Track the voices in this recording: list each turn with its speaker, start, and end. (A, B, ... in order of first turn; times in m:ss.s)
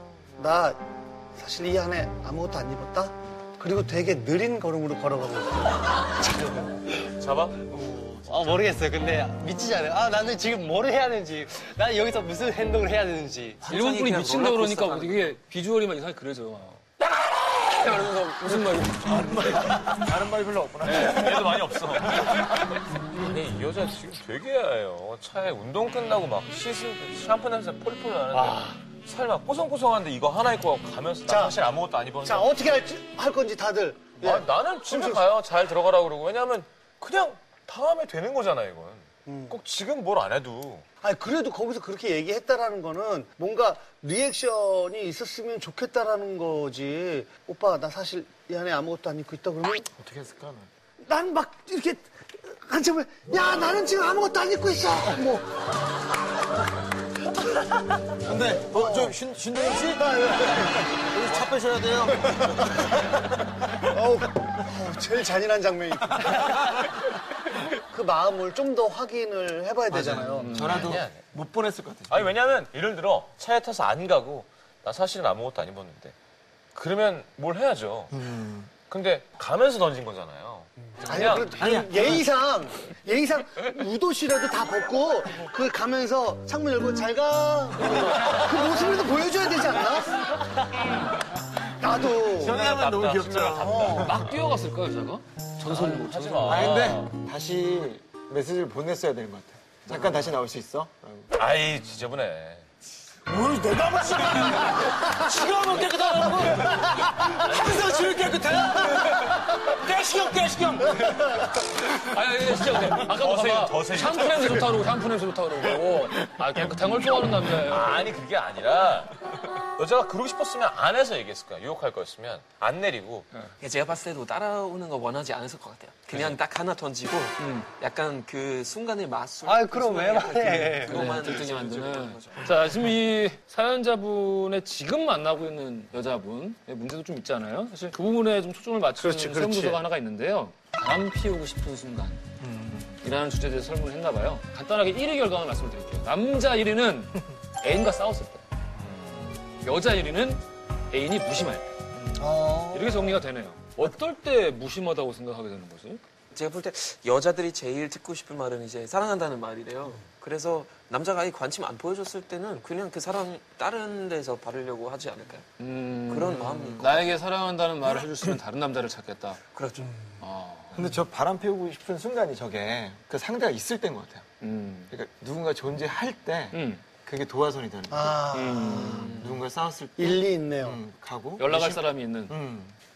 0:00.4-0:00.8 A
0:01.4-0:06.1 A
0:07.2-0:07.7 B
0:07.7-0:08.9 C
0:08.5-0:09.1 D
0:11.1-0:13.6 D
0:13.6-0:19.8 E
0:13.7-0:15.3 F
0:19.0-0:22.3 C
0:20.8-0:22.7 B
0:20.9-0:21.2 E
0:23.2-0:32.8 B
0:31.3-0:31.6 A
0:32.2-0:35.2 A
0:34.2-0:40.8 B
0:39.3-0:39.6 A
0:41.0-0:49.9 A
0:49.9-0:50.7 C
0:51.0-0:55.6 A
0:58.2-1:02.4 C
0:58.6-0:59.2 A
1:00.0-1:01.4 A
1:02.1-1:03.1 A
1:03.8-1:06.8 A
1:07.8-1:10.8 A
1:09.9-1:12.4 C
1:10.4-1:11.0 E
1:10.7-1:11.2 B
1:12.1-1:16.1 B
1:16.8-1:18.2 B
1:18.1-1:18.7 C
1:18.9-1:21.6 B
1:21.0-1:30.2 A
1:21.6-1:22.3 C
1:31.7-1:32.6 A
1:32.3-1:34.2 C
1:32.4-1:34.4 B
1:33.6-1:34.1 A
1:34.0-1:36.8 E
1:35.6-1:37.1 B
1:36.4-1:41.3 C
1:41.4-1:42.7 B
1:43.5-1:45.7 C
1:44.2-1:58.1 E
1:47.4-1:48.0 B
1:52.7-1:54.8 B
1:57.6-2:03.3 B
2:03.6-2:12.8 F
2:07.4-2:07.7 E
2:09.6-2:10.9 D
2:10.8-2:22.2 E
2:19.2-2:19.8 A
2:22.4-2:23.0 C
2:23.0-2:28.4 E
2:29.6-2:31.7 E
2:32.2-2:33.2 A
2:32.7-2:36.0 E
2:36.3-2:45.4 F
2:45.6-2:49.4 E
2:46.0-2:47.2 F
2:49.5-2:50.0 F
2:50.2-2:50.8 E
2:50.7-2:54.3 C
2:54.4-2:54.9 E
2:54.9-3:02.8 C
2:56.5-2:56.8 E
2:57.9-2:59.3 A
2:58.3-2:59.2 E
3:00.0-3:00.8 A
3:01.4-3:02.4 E